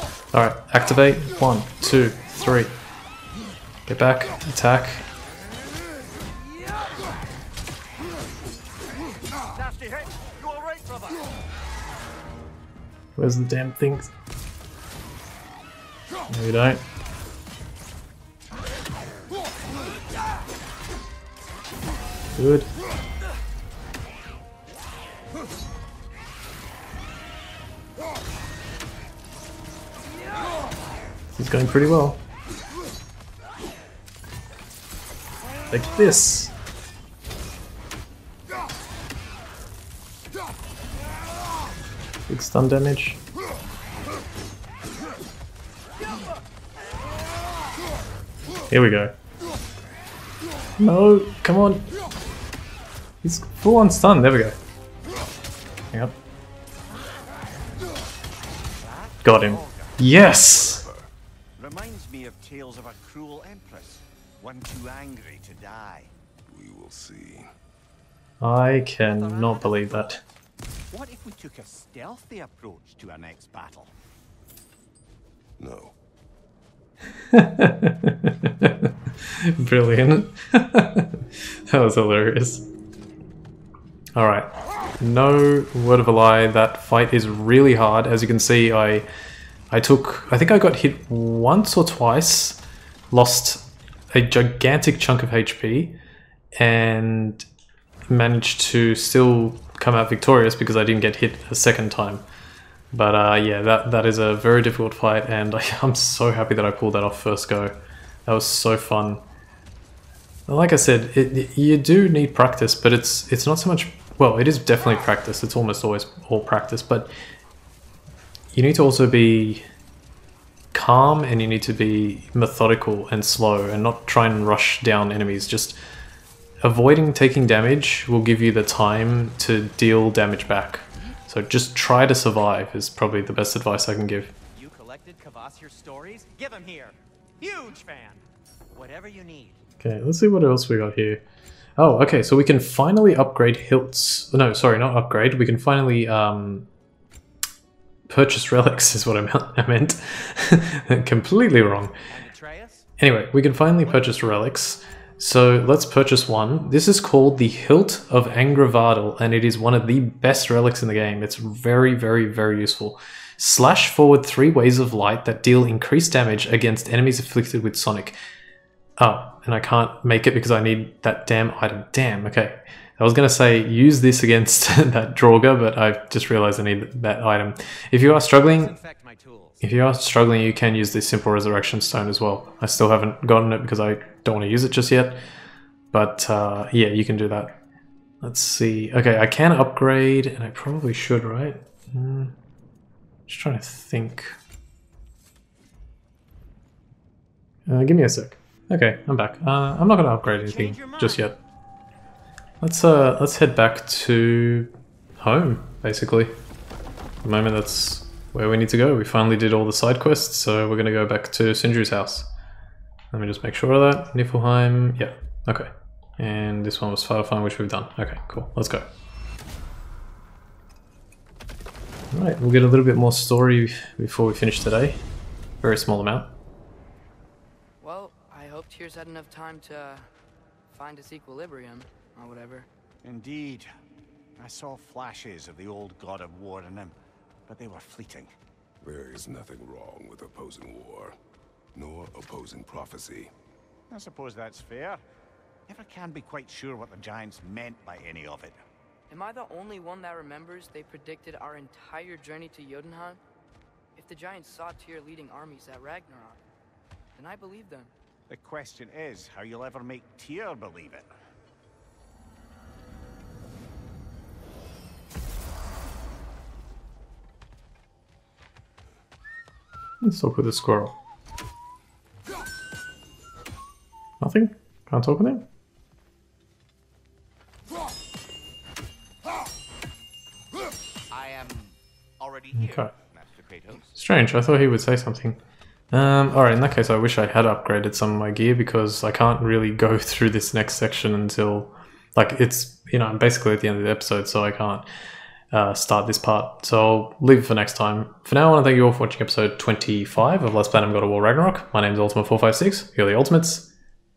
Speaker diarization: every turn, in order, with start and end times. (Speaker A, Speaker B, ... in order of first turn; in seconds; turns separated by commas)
Speaker A: 0.3-2.7, Speaker A: 3.9-5.1, Speaker B: 9.5-11.3, Speaker A: 13.2-14.1, Speaker A: 16.3-16.8, Speaker A: 22.3-22.7, Speaker A: 31.3-32.2, Speaker A: 35.7-36.5, Speaker A: 42.3-43.2, Speaker A: 48.7-49.1, Speaker A: 50.8-51.9, Speaker A: 53.2-54.5, Speaker B: 56.9-57.5, Speaker B: 58.8-60.0, Speaker A: 59.2-60.9, Speaker C: 60.3-61.1, Speaker B: 61.6-66.1, Speaker C: 66.5-67.5, Speaker A: 68.4-70.2, Speaker B: 69.0-70.3, Speaker B: 70.9-73.9, Speaker C: 75.6-75.9, Speaker A: 77.3-82.7, Speaker A: 84.1-89.0, Speaker A: 89.7-96.0, Speaker A: 96.6-97.5, Speaker A: 98.1-102.2, Speaker A: 102.9-107.8, Speaker A: 108.3-109.2, Speaker A: 110.5-117.1, Speaker A: 118.5-119.6, Speaker A: 120.7-125.8, Speaker A: 126.6-134.3, Speaker B: 134.5-138.2, Speaker B: 138.7-139.6, Speaker A: 139.8-141.2, Speaker A: 141.8-146.7, Speaker A: 148.1-151.9, Speaker B: 152.1-152.9, Speaker A: 153.0-168.2, Speaker B: 153.8-154.4, Speaker A: 169.0-178.7, Speaker B: 178.4-179.6, Speaker A: 179.6-185.2, Speaker A: 185.9-187.6, Speaker A: 188.2-192.3, Speaker A: 193.3-194.4, Speaker A: 197.7-201.3, Speaker B: 200.2-201.3, Speaker A: 202.6-206.3, Speaker A: 207.2-212.3, Speaker A: 213.1-218.8, Speaker A: 222.1-225.0, Speaker A: 225.6-226.3, Speaker D: 227.8-230.1, Speaker D: 230.7-232.7, Speaker B: 233.0-233.7, Speaker B: 234.4-236.9, Speaker B: 237.5-238.3, Speaker C: 238.8-241.2, Speaker C: 241.7-243.3, Speaker B: 243.9-245.0, Speaker B: 245.7-248.6, Speaker D: 249.1-253.2, Speaker D: 253.9-256.4, Speaker D: 257.1-257.9, Speaker B: 258.3-261.1, Speaker A: 270.0-270.9, Speaker A: 274.2-275.4, Speaker B: 281.1-284.0, Speaker A: 282.6-282.9, Speaker A: 283.9-285.4, Speaker A: 285.9-294.9, Speaker A: 295.5-303.7